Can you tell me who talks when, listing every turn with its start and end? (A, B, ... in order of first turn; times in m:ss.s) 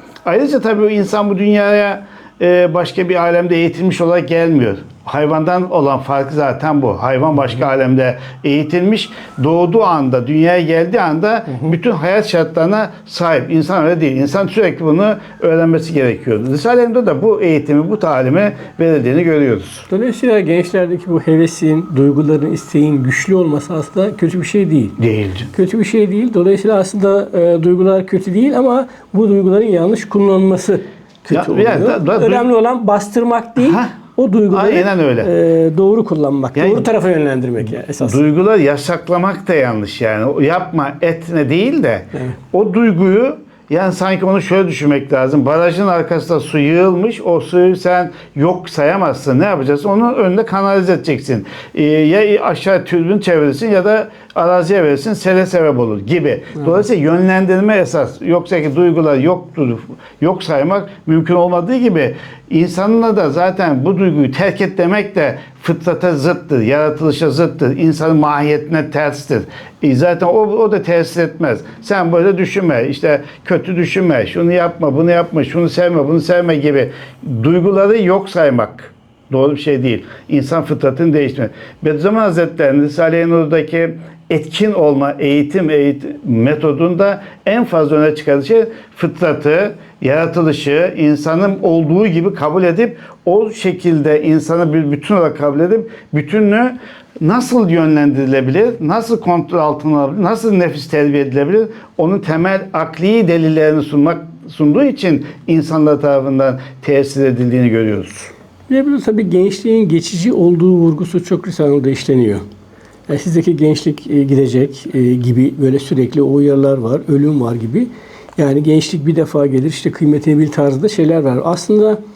0:00.3-0:19.9 A
0:19.9-0:25.0 B
0:25.0-0:25.5 A
0:25.5-0:38.2 B
0:31.3-0:32.5 A
0:33.6-0:34.0 A
0:34.5-0:35.3 A
0:36.6-0:36.9 A
0:38.0-1:48.3 A
1:48.7-1:52.4 B
1:53.1-2:02.0 B